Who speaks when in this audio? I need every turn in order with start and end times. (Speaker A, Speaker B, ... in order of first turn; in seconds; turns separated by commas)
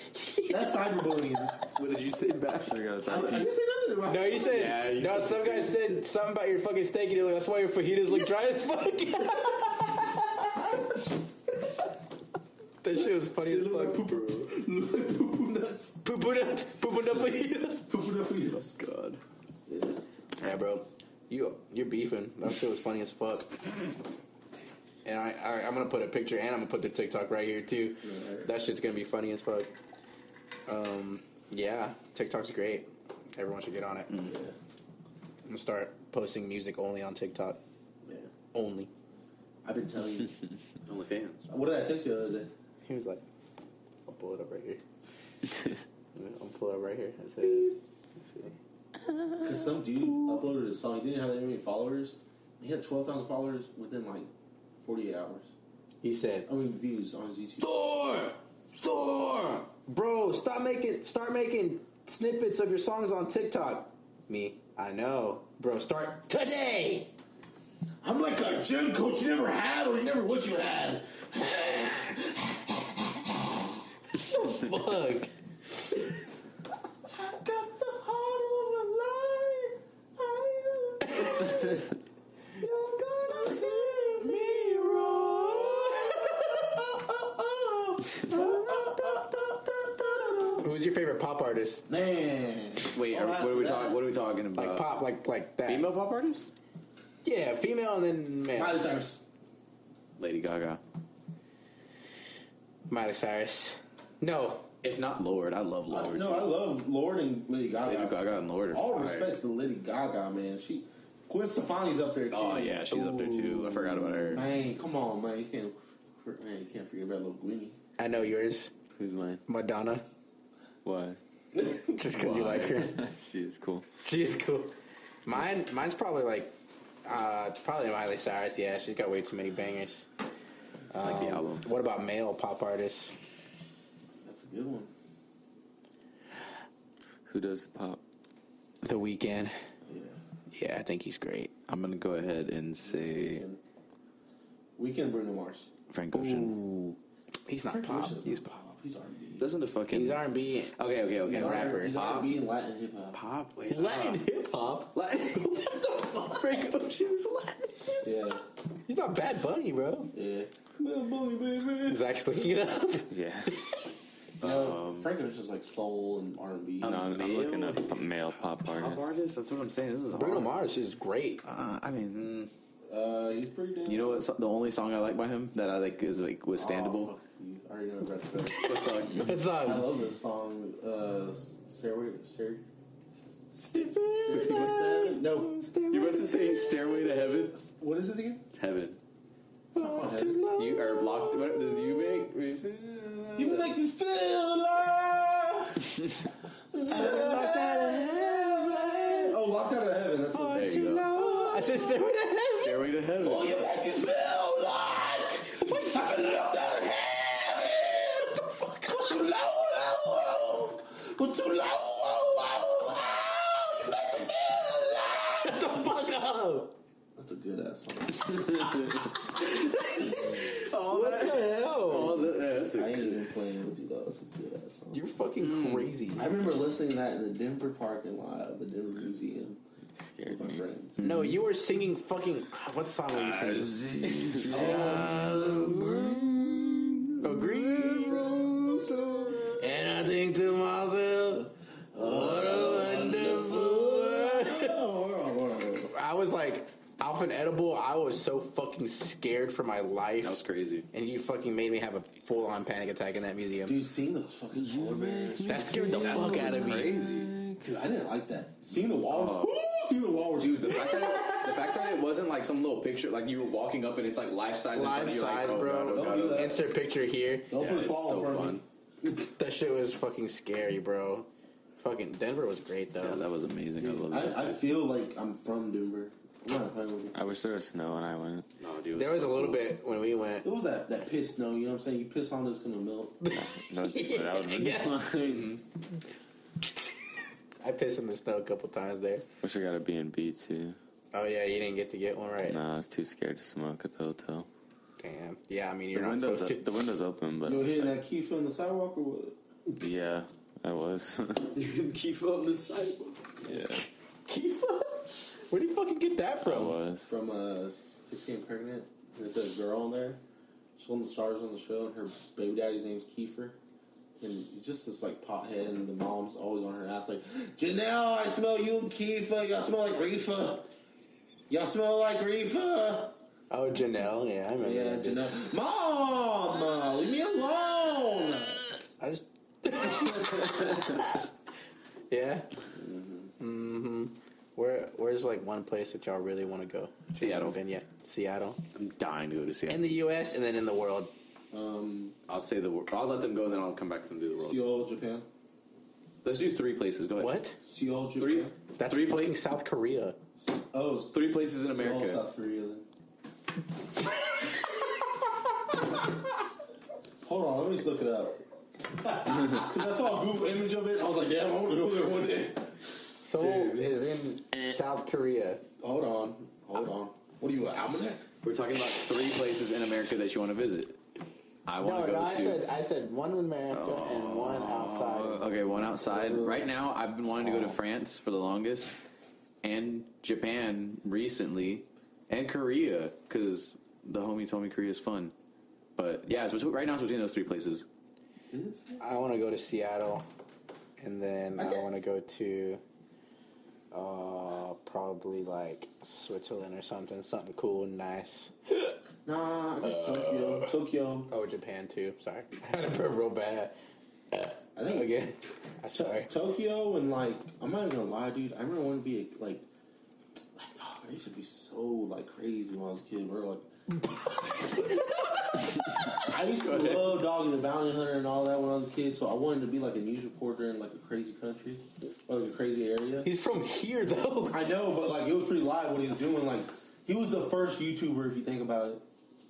Speaker A: 0.4-1.6, Speaker B: 1.7-2.8, Speaker C: 2.6-3.5, Speaker A: 3.0-4.8, Speaker D: 4.0-10.2, Speaker B: 4.4-5.9, Speaker D: 12.8-14.0, Speaker A: 13.4-16.0, Speaker D: 16.0-17.9, Speaker A: 17.9-18.7, Speaker B: 18.6-19.2, Speaker A: 19.7-20.0, Speaker D: 20.4-23.8, Speaker D: 25.0-29.7, Speaker A: 28.0-28.5, Speaker D: 30.7-34.1, Speaker A: 34.2-34.5, Speaker D: 35.4-37.6, Speaker A: 38.0-38.3, Speaker D: 38.5-38.9, Speaker A: 39.6-40.4, Speaker B: 40.9-41.5, Speaker A: 41.5-42.5, Speaker D: 42.8-43.2, Speaker D: 44.1-44.8, Speaker D: 46.1-48.5, Speaker A: 49.4-54.3, Speaker A: 54.8-55.5, Speaker D: 56.0-56.5, Speaker A: 56.5-57.8, Speaker D: 57.6-67.1, Speaker A: 68.0-72.6, Speaker D: 74.2-75.3, Speaker A: 77.1-81.8, Speaker D: 81.0-81.8, Speaker D: 82.6-86.3, Speaker A: 82.7-90.7, Speaker D: 90.6-91.8, Speaker A: 91.9-94.0, Speaker B: 92.9-94.9, Speaker D: 94.5-95.9, Speaker B: 95.7-96.5, Speaker D: 97.2-98.8, Speaker A: 98.5-99.2, Speaker B: 100.2-100.8, Speaker D: 102.9-104.7, Speaker B: 104.8-106.6, Speaker A: 105.9-112.9, Speaker B: 107.8-109.3, Speaker B: 112.3-114.5, Speaker D: 112.9-114.0, Speaker A: 114.2-117.8, Speaker D: 118.0-118.7, Speaker C: 119.0-119.4, Speaker D: 119.5-120.0, Speaker C: 120.8-121.2, Speaker D: 121.7-123.0, Speaker B: 122.1-122.8, Speaker C: 122.5-123.8, Speaker D: 124.0-126.5, Speaker D: 127.0-130.1, Speaker D: 130.9-133.1, Speaker B: 131.0-131.7, Speaker A: 134.2-134.9, Speaker C: 137.2-138.0, Speaker D: 138.8-139.5, Speaker A: 139.9-140.2, Speaker D: 140.5-141.5, Speaker B: 141.7-143.4, Speaker A: 142.8-143.6, Speaker A: 144.8-145.7, Speaker B: 145.9-146.8, Speaker D: 146.2-146.5, Speaker D: 147.5-148.6, Speaker A: 147.6-149.5, Speaker B: 149.4-152.3, Speaker D: 149.9-150.7, Speaker A: 151.2-153.2, Speaker D: 151.3-151.9, Speaker B: 153.1-154.2, Speaker D: 153.7-158.1, Speaker B: 154.9-155.4, Speaker A: 158.0-158.4, Speaker D: 158.9-160.1, Speaker A: 160.1-162.0, Speaker D: 161.8-163.6, Speaker C: 163.1-163.6, Speaker B: 164.4-165.1, Speaker A: 164.4-167.1, Speaker B: 166.8-168.1, Speaker C: 166.8-169.2, Speaker B: 168.6-170.6, Speaker D: 170.1-171.4, Speaker B: 171.4-172.5, Speaker A: 172.9-174.3, Speaker B: 173.8-177.1, Speaker A: 176.6-178.7, Speaker B: 178.6-179.3, Speaker D: 179.1-179.9, Speaker A: 179.4-182.6, Speaker A: 183.6-185.6, Speaker D: 183.6-186.8, Speaker B: 184.3-185.0, Speaker B: 185.9-187.6, Speaker A: 187.5-188.4, Speaker B: 188.5-189.0, Speaker A: 189.7-190.4, Speaker D: 189.7-192.2, Speaker B: 190.5-193.7, Speaker A: 193.3-196.0, Speaker A: 196.7-201.9, Speaker D: 196.9-199.2, Speaker D: 200.3-202.9, Speaker B: 200.5-201.1, Speaker B: 202.6-203.6, Speaker A: 203.2-215.7, Speaker D: 205.7-206.2, Speaker D: 208.4-209.1, Speaker D: 215.4-216.7, Speaker A: 217.2-220.5, Speaker D: 219.4-222.2, Speaker B: 220.5-223.4, Speaker A: 221.8-225.0, Speaker D: 224.9-226.3, Speaker B: 225.4-225.9, Speaker A: 226.1-229.6, Speaker C: 230.0-230.6, Speaker A: 230.2-231.0, Speaker B: 231.0-231.4, Speaker D: 231.0-236.2, Speaker B: 233.1-236.9, Speaker C: 234.2-234.6, Speaker A: 234.5-239.6, Speaker D: 237.2-238.3, Speaker D: 239.4-244.8, Speaker A: 241.9-245.9, Speaker D: 245.9-253.8, Speaker B: 250.2-250.9, Speaker A: 253.6-256.2, Speaker C: 254.6-257.6, Speaker D: 255.5-257.0, Speaker B: 255.9-257.3, Speaker A: 257.6-261.5, Speaker B: 259.1-259.5, Speaker B: 260.4-266.6, Speaker D: 264.7-267.5, Speaker A: 265.9-266.6, Speaker A: 267.5-268.6, Speaker B: 267.5-268.6, Speaker D: 269.2-271.3, Speaker D: 271.8-273.2, Speaker B: 273.0-274.7, Speaker A: 273.8-277.1, Speaker C: 277.1-278.5, Speaker B: 278.6-279.7, Speaker D: 278.9-280.5, Speaker A: 280.4-283.2, Speaker D: 283.2-285.4, Speaker C: 283.3-285.5, Speaker D: 287.6-289.2, Speaker C: 289.4-290.8, Speaker D: 291.1-292.6, Speaker C: 292.4-294.5, Speaker D: 295.0-296.6, Speaker C: 295.9-297.9, Speaker A: 297.4-299.4, Speaker C: 299.8-301.5, Speaker B: 301.5-303.4, Speaker C: 303.4-303.8, Speaker D: 304.3-306.8, Speaker C: 306.4-307.1, Speaker A: 307.1-310.2, Speaker A: 310.8-313.6, Speaker A: 314.2-320.7, Speaker A: 321.5-323.1, Speaker D: 323.5-325.4, Speaker A: 324.6-328.6, Speaker D: 329.0-331.2, Speaker D: 332.1-332.5, Speaker A: 332.7-333.3, Speaker D: 333.4-338.6, Speaker B: 337.2-337.6, Speaker B: 338.7-340.0, Speaker D: 339.7-341.1, Speaker A: 341.5-342.1, Speaker B: 342.3-344.6, Speaker A: 344.4-345.3, Speaker B: 346.2-347.4, Speaker D: 347.2-347.6, Speaker A: 347.6-348.5, Speaker B: 348.2-349.3, Speaker D: 348.8-350.2, Speaker A: 350.5-352.9, Speaker B: 351.1-352.2, Speaker A: 357.2-358.4, Speaker A: 359.0-362.7, Speaker D: 363.2-365.6, Speaker B: 363.4-363.9, Speaker A: 365.8-368.2, Speaker B: 368.4-371.0, Speaker B: 371.7-372.6, Speaker D: 371.8-375.8, Speaker B: 373.7-378.9, Speaker A: 376.1-376.7, Speaker A: 377.4-377.8, Speaker B: 379.6-385.3, Speaker B: 385.9-387.9, Speaker A: 388.5-389.0, Speaker D: 389.0-390.2, Speaker D: 391.0-392.8, Speaker A: 391.6-391.9, Speaker D: 393.9-398.9, Speaker A: 399.2-401.3, Speaker D: 399.8-400.7, Speaker D: 401.3-403.7, Speaker D: 404.3-406.3, Speaker A: 404.8-405.2, Speaker A: 405.9-409.6, Speaker A: 410.6-413.7, Speaker D: 414.4-416.2, Speaker A: 416.2-423.3, Speaker B: 416.6-417.1, Speaker D: 423.2-424.7, Speaker A: 424.5-429.0